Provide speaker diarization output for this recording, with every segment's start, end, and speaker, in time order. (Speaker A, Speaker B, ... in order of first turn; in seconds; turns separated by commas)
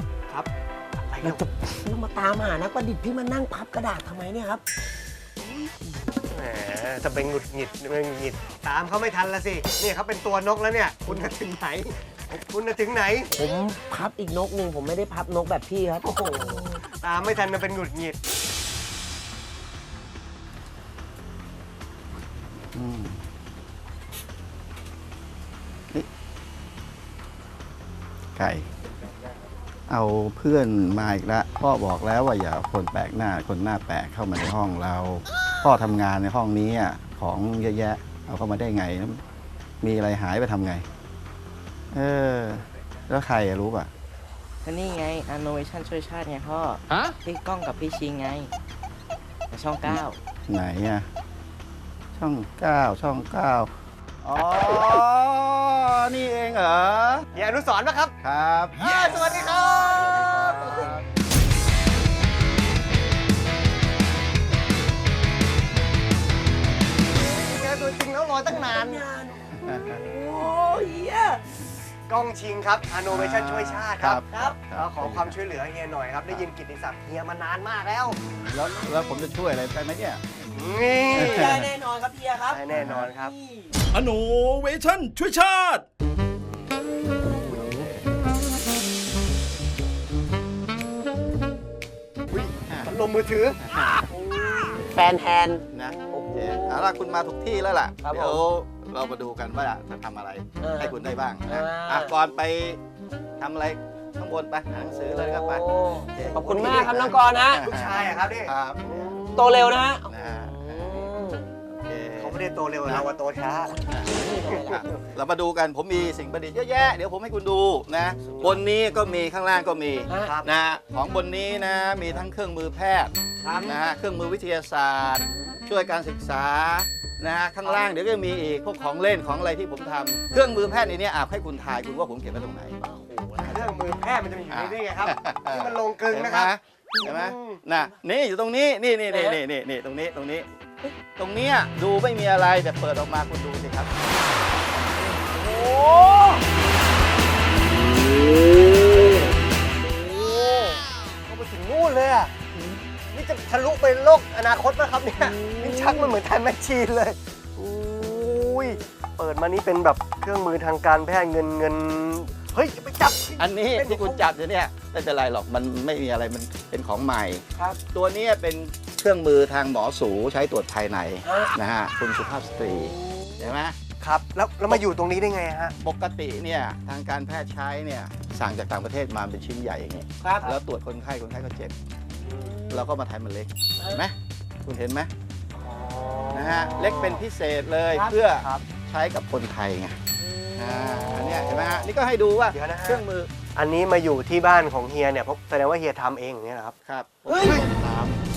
Speaker A: 1.1-1.5, Speaker B: 1.2-4.6, Speaker A: 6.3-13.3, Speaker B: 13.3-16.8, Speaker A: 16.9-18.2, Speaker C: 22.7-23.2, Speaker C: 28.4-28.7, Speaker C: 29.9-39.2, Speaker C: 39.8-40.9, Speaker C: 41.9-43.9, Speaker D: 44.6-48.5, Speaker D: 49.5-50.2, Speaker C: 49.9-51.1, Speaker C: 52.2-53.7, Speaker C: 54.2-57.3, Speaker A: 57.4-58.1, Speaker C: 58.2-58.8, Speaker A: 58.8-61.0, Speaker B: 59.6-61.0, Speaker A: 67.4-69.0, Speaker B: 68.8-71.4, Speaker C: 69.6-69.9, Speaker A: 72.1-78.2, Speaker C: 73.1-75.3, Speaker B: 74.3-74.6, Speaker C: 78.1-80.2, Speaker A: 80.5-81.6, Speaker C: 81.1-81.7, Speaker B: 81.4-82.6, Speaker A: 82.4-83.3, Speaker C: 82.7-83.1, Speaker B: 83.3-83.7, Speaker E: 83.9-85.8, Speaker A: 87.5-87.8, Speaker A: 92.3-93.6, Speaker C: 92.7-92.9, Speaker C: 93.6-94.1, Speaker A: 94.2-94.8, Speaker B: 94.9-96.8, Speaker C: 95.7-102.8, Speaker B: 98.0-98.4, Speaker B: 100.6-101.0, Speaker B: 101.5-102.1, Speaker C: 103.4-109.5, Speaker B: 104.8-107.5, Speaker A: 106.3-109.7, Speaker B: 109.4-111.5, Speaker C: 110.0-111.1, Speaker C: 111.8-113.0, Speaker A: 112.2-114.8, Speaker C: 113.9-132.8, Speaker B: 114.1-114.8, Speaker A: 118.3-118.6, Speaker A: 120.1-120.5, Speaker A: 123.4-123.8, Speaker B: 132.8-133.7, Speaker A: 133.4-137.6, Speaker C: 134.5-140.5, Speaker B: 139.1-139.4, Speaker C: 141.1-144.0, Speaker A: 145.1-146.4, Speaker A: 148.7-149.2, Speaker A: 149.9-152.3, Speaker A: 153.1-164.3, Speaker C: 163.4-173.8, Speaker B: 171.3-171.5, Speaker B: 172.9-173.4, Speaker A: 174.0-175.7, Speaker C: 175.8-181.8, Speaker A: 182.3-182.5, Speaker B: 182.5-182.8, Speaker C: 182.7-185.1, Speaker A: 185.6-187.2, Speaker C: 186.3-190.0, Speaker A: 188.1-188.6, Speaker B: 190.2-191.5, Speaker C: 190.6-193.3, Speaker A: 191.4-191.9, Speaker A: 192.5-193.0, Speaker A: 193.5-196.8, Speaker C: 196.8-198.2, Speaker A: 197.3-197.7